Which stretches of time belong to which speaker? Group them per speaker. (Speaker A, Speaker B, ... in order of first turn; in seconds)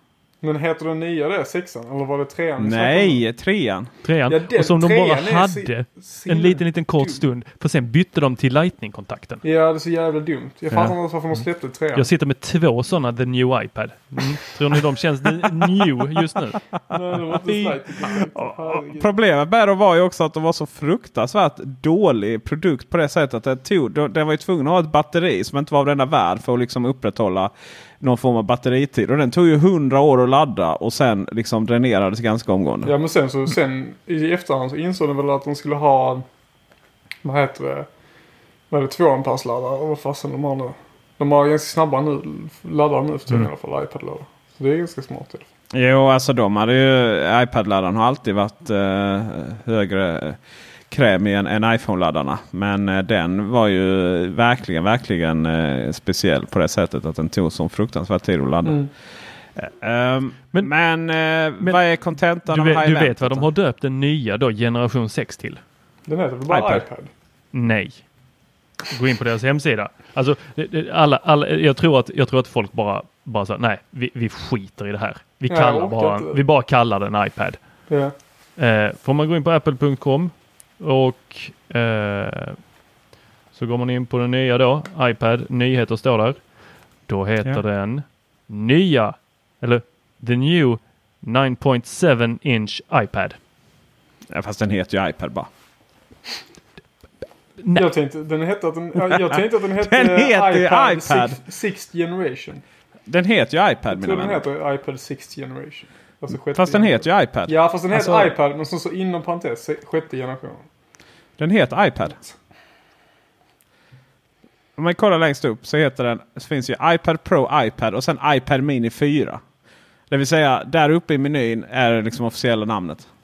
Speaker A: 0.4-3.2, 4.3-7.2, 9.4-12.1, 16.9-19.1, 32.8-36.2, 37.2-37.9, 38.7-45.5, 58.6-58.9, 66.1-67.1, 75.5-76.4, 77.9-78.1, 97.7-102.6, 103.9-110.7
Speaker B: 2.6-3.9, 17.3-32.9, 45.7-58.9, 59.5-63.5, 66.5-66.8, 94.3-95.5, 99.0-101.4, 103.1-104.4, 106.5-108.3, 111.4-112.2, 114.8-119.4, 120.1-123.1
Speaker C: 4.0-9.4, 11.9-16.6, 62.4-65.6, 67.5-68.1, 68.9-77.9, 78.5-82.7, 83.5-93.4, 97.6-97.9